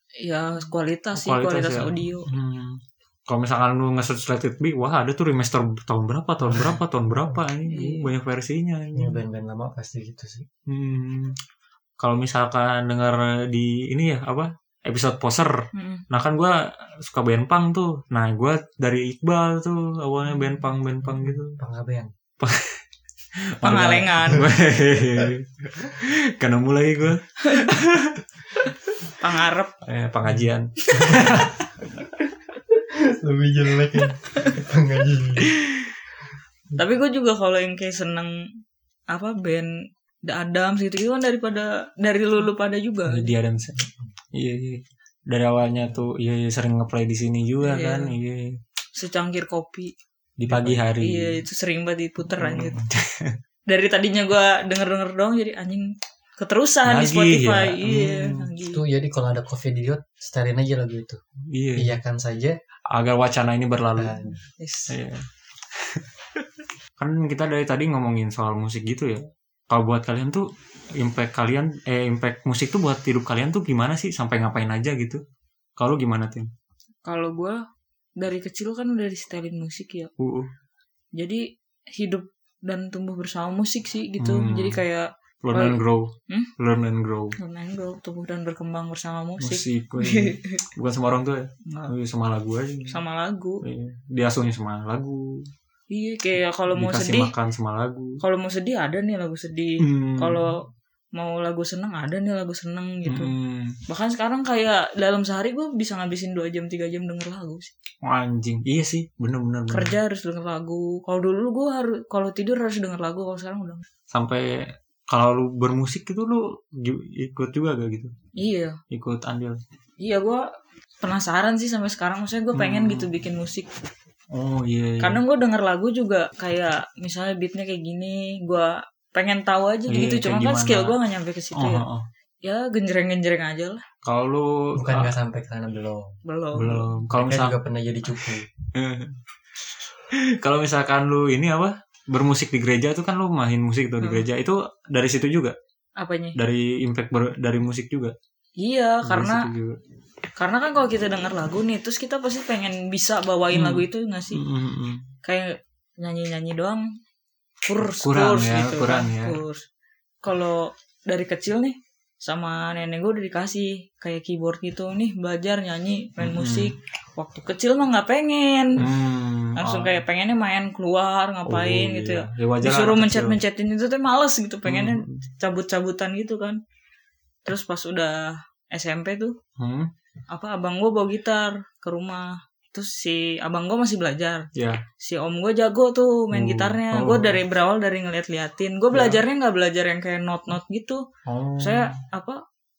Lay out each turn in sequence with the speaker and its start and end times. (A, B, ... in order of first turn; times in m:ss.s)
0:00.2-0:02.3 A
0:01.1-0:09.2 B
0:06.4-0:07.4 C
0:07.6-0:08.1 A
0:08.9-0:10.4 C
0:10.7-0:11.4 B
0:12.0-0:15.6 B
0:15.7-0:16.0 A
0:16.1-0:21.6 B
0:21.2-0:22.1 C
0:22.4-0:22.8 B
0:23.6-0:28.7 B
0:23.6-0:24.5 A
0:27.4-0:27.7 A
0:29.2-0:29.7 A
0:29.8-0:31.6 B
0:31.0-0:31.4 C
0:32.7-0:35.5 C
0:36.7-0:38.4 A
0:39.1-0:39.7 A
0:40.2-0:43.3 A
0:43.1-0:43.8 B
0:43.8-0:44.1 C
0:44.3-0:48.6 B
0:47.6-0:48.1 A
0:49.0-0:49.9 A
0:50.4-0:51.4 B
0:51.0-0:52.8 A
0:52.4-0:53.4 B
0:53.7-0:58.8 A
0:56.8-0:58.5 B
0:58.7-1:01.2 C
1:01.5-1:02.0 B
1:01.8-1:02.6 C
1:02.9-1:04.2 B
1:04.0-1:04.4 C
1:04.6-1:04.9 A
1:04.9-1:05.2 B
1:05.8-1:06.4 B
1:07.0-1:15.2 B
1:15.8-1:16.5 B
1:17.0-1:17.6 A
1:18.2-1:20.1 A
1:20.2-1:20.5 B
1:21.2-1:25.8 A
1:24.2-1:24.8 B
1:25.4-1:27.4 B
1:27.4-1:30.6 A
1:29.4-1:33.0 B
1:31.6-1:31.9 A
1:32.9-1:33.6 A
1:33.6-1:35.5 B
1:35.9-1:37.3 A
1:36.7-1:38.2 B
1:38.2-1:40.6 A
1:39.8-1:40.5 B
1:41.1-1:43.3 A
1:43.0-1:43.8 B
1:43.9-1:47.7 A
1:48.0-1:49.9 B
1:49.7-1:53.8 A
1:54.1-1:58.1 B
1:58.4-1:58.8 A
1:58.9-1:59.6 B
2:00.0-2:00.4 A
2:01.0-2:03.7 A
2:02.5-2:03.1 B
2:04.3-2:05.2 B
2:05.0-2:11.8 A
2:09.9-2:11.0 B
2:11.5-2:12.0 B
2:12.4-2:13.8 A
2:14.0-2:15.1 B
2:14.8-2:16.1 C
2:16.2-2:16.9 A
2:16.5-2:17.6 B
2:17.1-2:18.5 C
2:18.1-2:19.2 B
2:20.1-2:25.6 B
2:26.0-2:26.4 A
2:26.4-2:28.1 B
2:28.6-2:29.5 A
2:29.0-2:29.8 B
2:30.4-2:34.4 A
2:33.5-2:35.0 B
2:35.2-2:36.9 A
2:37.6-2:39.6 A
2:37.8-2:39.4 B
2:40.2-2:48.9 A
2:46.2-2:46.7 B
2:48.8-2:50.0 B
2:49.6-2:56.6 A
2:51.4-2:53.4 B
2:54.6-2:55.2 B
2:57.4-2:59.4 A
2:59.6-2:59.9 B
3:00.3-3:04.5 A
3:04.5-3:04.8 B
3:05.0-3:11.0 A
3:06.3-3:07.4 B
3:08.9-3:09.2 B
3:11.2-3:11.9 B
3:11.6-3:12.4 A